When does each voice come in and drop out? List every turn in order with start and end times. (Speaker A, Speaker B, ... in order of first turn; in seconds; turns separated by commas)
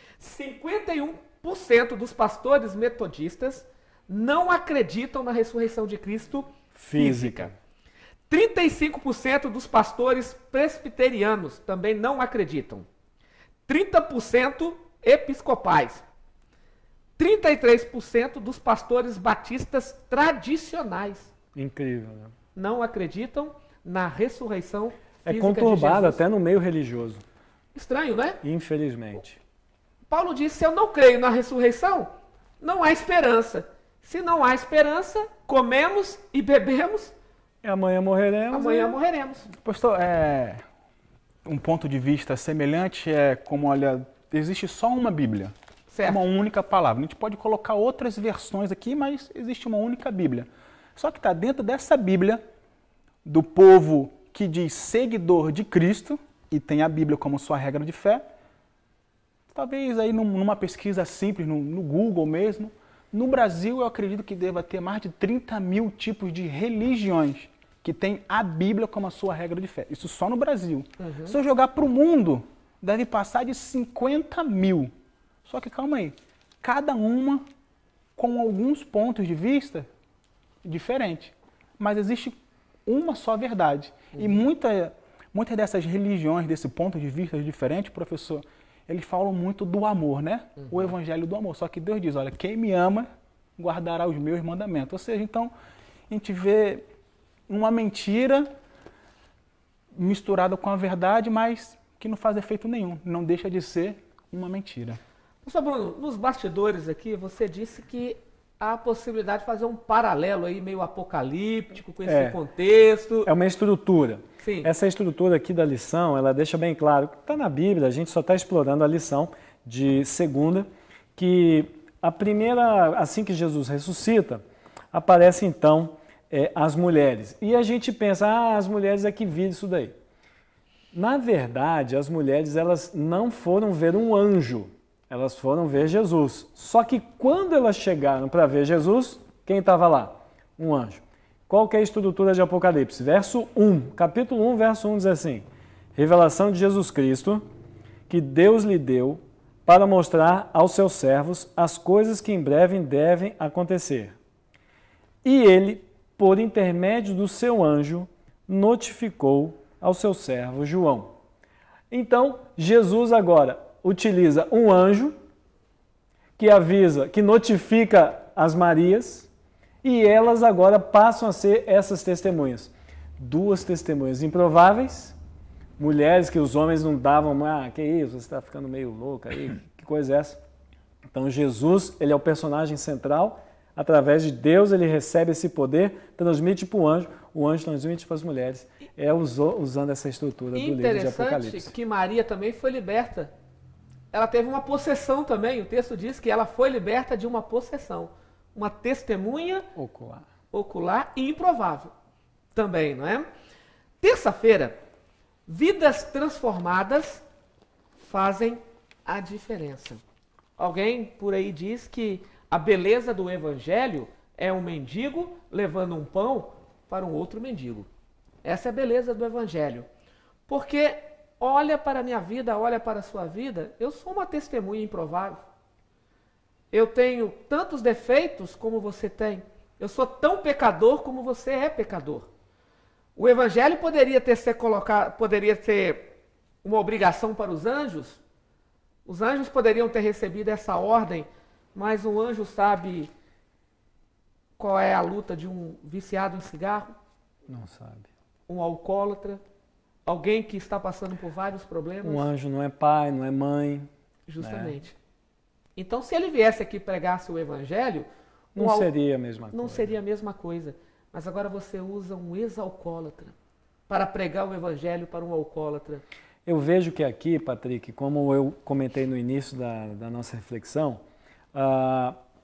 Speaker A: 0.2-7.5, Speaker B: 6.7-7.5, Speaker A: 8.3-12.8, Speaker A: 13.7-16.1, Speaker A: 17.2-21.3, Speaker B: 21.5-22.3, Speaker A: 22.5-26.2, Speaker B: 25.2-27.2, Speaker A: 27.7-28.4, Speaker B: 28.4-29.4, Speaker A: 30.1-32.1, Speaker A: 32.6-37.1, Speaker B: 37.6-39.0, Speaker A: 38.5-39.5, Speaker C: 39.6-40.6, Speaker C: 41.4-45.5, Speaker A: 45.9-46.2, Speaker C: 46.0-52.4, Speaker C: 53.2-58.2, Speaker C: 59.5-74.9, Speaker A: 71.0-71.3, Speaker C: 75.4-77.5, Speaker C: 78.2-79.9, Speaker C: 80.6-95.5, Speaker A: 90.6-90.8, Speaker C: 96.1-96.8, Speaker C: 97.5-98.5, Speaker C: 99.9-105.0, Speaker A: 105.4-113.3, Speaker B: 112.0-112.4, Speaker B: 113.2-129.9, Speaker A: 114.4-114.7, Speaker B: 130.9-147.4, Speaker B: 148.1-154.2, Speaker B: 155.2-161.1, Speaker B: 161.9-165.2, Speaker B: 166.4-169.3, Speaker B: 169.8-175.2, Speaker B: 175.8-180.4, Speaker B: 181.1-191.7, Speaker A: 190.5-193.3, Speaker A: 194.1-199.7, Speaker B: 199.7-200.2, Speaker A: 200.5-201.9, Speaker A: 202.5-203.3, Speaker A: 204.0-204.8, Speaker A: 205.5-207.2, Speaker A: 208.0-210.0, Speaker A: 210.6-217.9, Speaker A: 218.4-219.9, Speaker A: 220.5-225.4, Speaker A: 226.7-232.3, Speaker A: 233.2-238.2, Speaker A: 239.1-243.1, Speaker A: 244.6-246.9, Speaker B: 247.5-248.1, Speaker A: 248.5-249.4, Speaker A: 250.1-252.3, Speaker B: 252.0-253.9, Speaker A: 254.3-254.9, Speaker B: 254.4-254.8, Speaker A: 255.8-258.9, Speaker B: 258.5-259.9, Speaker A: 259.5-263.3, Speaker A: 263.9-266.0, Speaker B: 266.4-271.0, Speaker B: 271.5-272.2